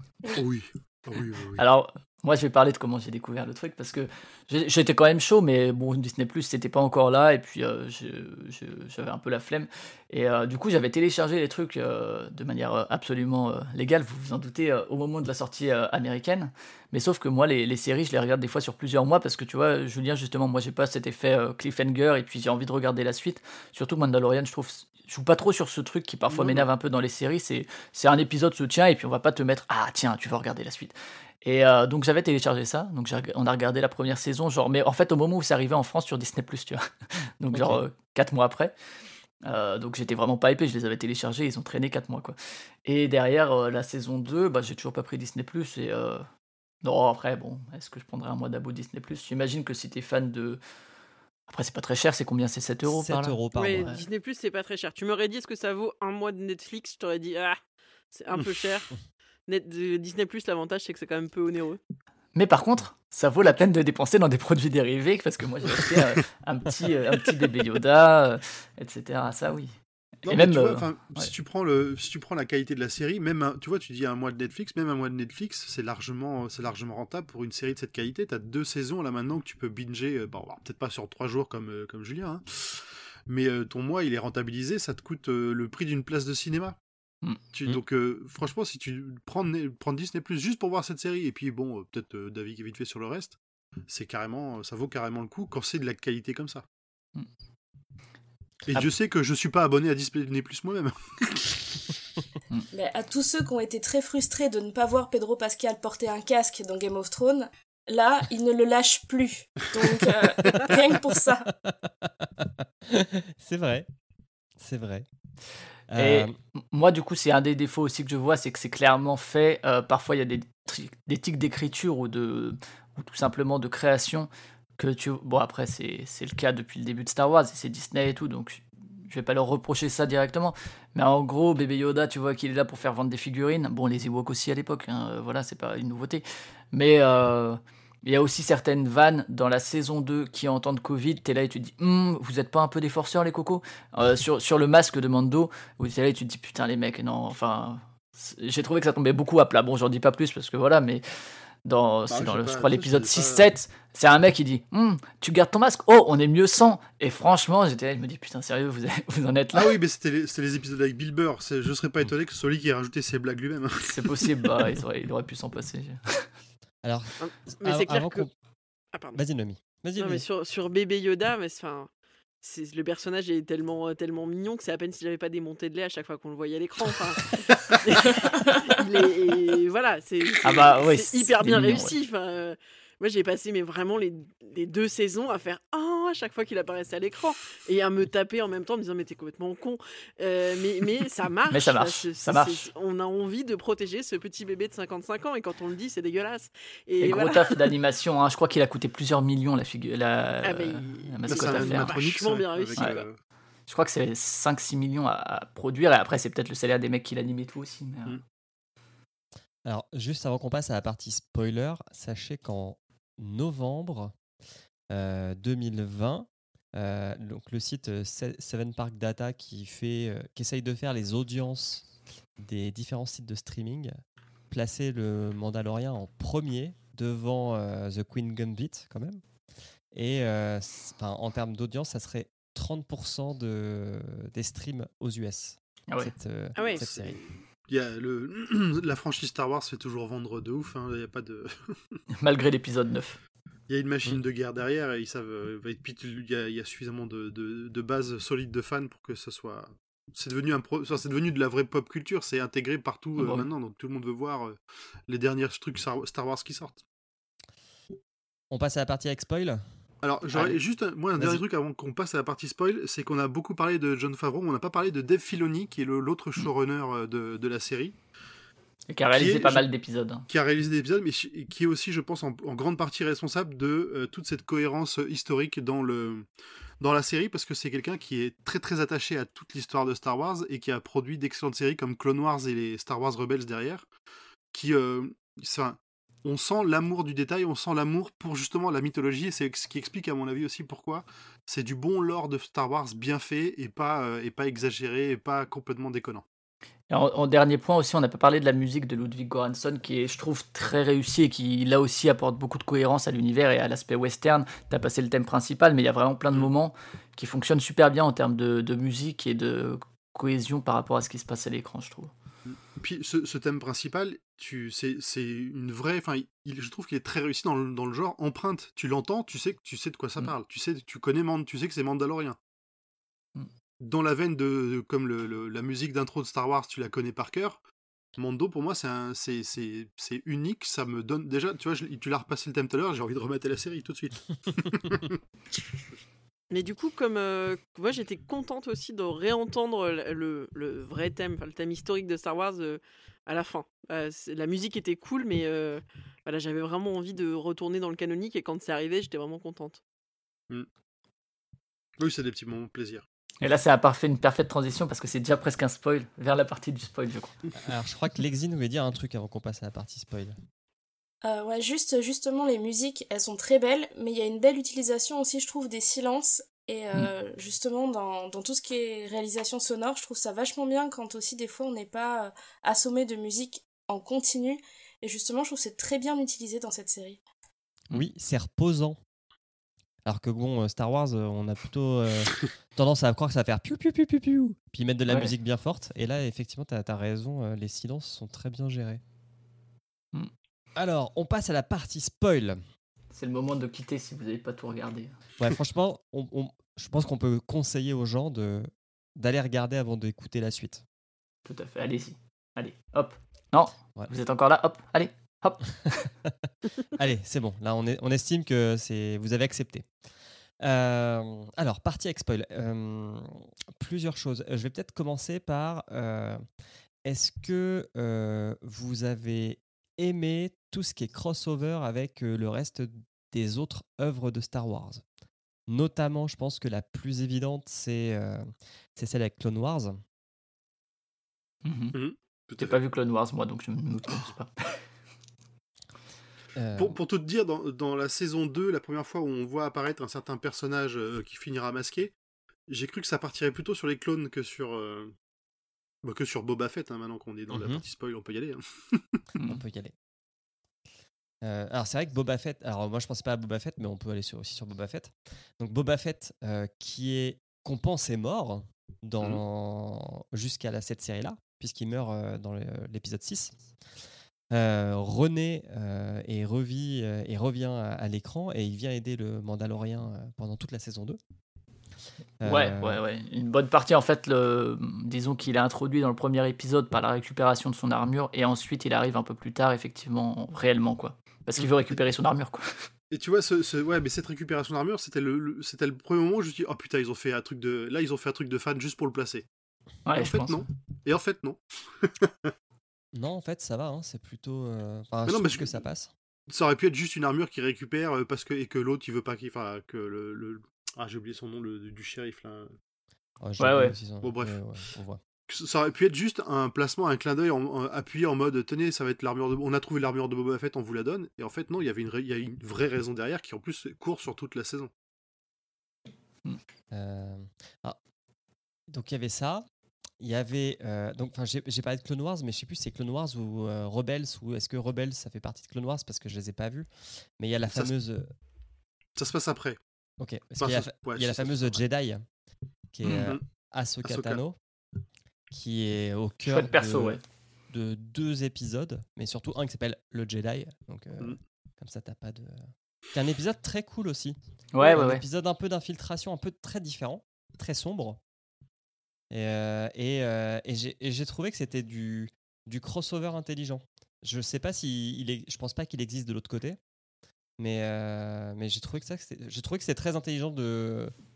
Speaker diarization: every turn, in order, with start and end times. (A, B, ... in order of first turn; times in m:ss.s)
0:00.3-0:01.6 A
0:01.6-0:38.7 B
0:26.3-0:26.7 A
0:37.5-0:37.8 C
0:39.4-0:46.2 B
0:46.8-0:50.6 B
0:51.5-0:54.0 B
0:52.8-0:53.9 C
0:53.5-0:57.6 D
0:58.1-0:58.9 D
0:59.5-1:01.8 D
1:02.3-1:09.7 B
1:10.2-1:26.8 A
1:10.3-1:11.3 B
1:27.2-1:27.8 B
1:27.5-1:36.6 A
1:38.7-1:41.7 A
1:42.7-1:51.5 E
1:51.6-1:53.9 C
1:54.6-1:55.0 C
1:55.9-1:56.3 C
1:56.0-2:31.0 B
2:31.6-2:39.7 B
2:32.1-2:33.5 A
2:39.5-2:44.4 A
2:43.8-2:46.3 B
2:46.8-2:48.3 C
2:47.2-2:48.3 D
2:48.9-2:49.2 D
2:49.1-2:50.2 C
2:50.0-2:51.9 D
2:52.4-3:17.7 D
3:00.4-3:01.9 B
3:11.5-3:12.7 B
3:17.0-3:22.0 B
3:20.4-3:23.0 D
3:21.3-3:23.2 A
3:22.8-3:23.0 B
3:23.7-3:28.2 B
3:29.6-3:34.1 C
3:34.9-3:41.9 C
3:42.4-3:44.0 C
3:44.5-3:49.2 C
3:49.9-3:57.2 C
3:56.6-3:56.8 D
3:56.7-4:02.0 A
4:02.2-4:03.2 B
4:03.7-4:16.8 A
4:13.2-4:13.5 B
4:18.5-4:19.6 C
4:20.0-4:28.0 A
4:20.3-4:20.6 B
4:28.9-4:30.3 B
4:29.1-4:29.6 A
4:30.3-4:36.3 A
4:36.8-4:43.9 A
4:44.5-4:56.2 A
4:56.9-5:12.1 B
5:12.4-5:22.4 A
5:23.8-5:27.6 A
5:28.2-5:35.2 A
5:36.5-5:49.8 D
5:52.0-5:53.0 A
5:53.4-5:57.3 B
5:57.5-6:00.4 C
6:01.2-6:17.2 E
6:17.9-6:19.0 C
6:20.0-6:29.0 C
6:25.1-6:25.3 B
6:30.7-6:32.6 C
6:33.1-6:35.1 B
6:35.4-6:40.8 C
6:41.4-6:46.1 B
6:46.9-6:49.9 C
6:50.6-6:56.4 C
6:57.0-7:05.0 C
7:05.7-7:10.0 C
7:11.6-7:12.0 B
7:11.9-7:12.8 A
7:12.6-7:14.8 B
7:16.6-7:16.9 C
7:16.8-7:22.1 A
7:22.7-7:25.1 A
7:26.0-7:29.2 A
7:27.5-7:27.8 C
7:29.4-7:29.9 C
7:31.4-7:43.6 C
7:44.5-7:51.2 C
7:52.4-7:53.0 C
7:52.4-8:02.9 B
8:03.1-8:09.5 A
8:10.0-8:10.6 B
8:10.1-8:12.5 A
8:13.1-8:16.1 C
8:15.2-8:15.8 A
8:16.5-8:22.7 A
8:23.4-8:25.2 C
8:23.6-8:23.9 B
8:24.2-8:24.6 A
8:25.5-8:34.9 A
8:36.9-8:38.0 C
8:38.9-8:39.6 C
8:40.2-8:46.9 C
8:47.4-8:48.3 C
8:49.2-8:49.8 A
8:50.2-8:52.2 C
8:50.6-8:51.8 A
8:52.9-8:54.6 C
8:53.1-8:53.4 A
8:54.0-8:54.4 A
8:55.5-8:57.2 C
8:56.5-8:57.2 B
8:57.7-9:04.4 C
9:04.7-9:05.2 B
9:04.9-9:08.2 C
9:09.3-9:16.8 C
9:17.6-9:21.1 C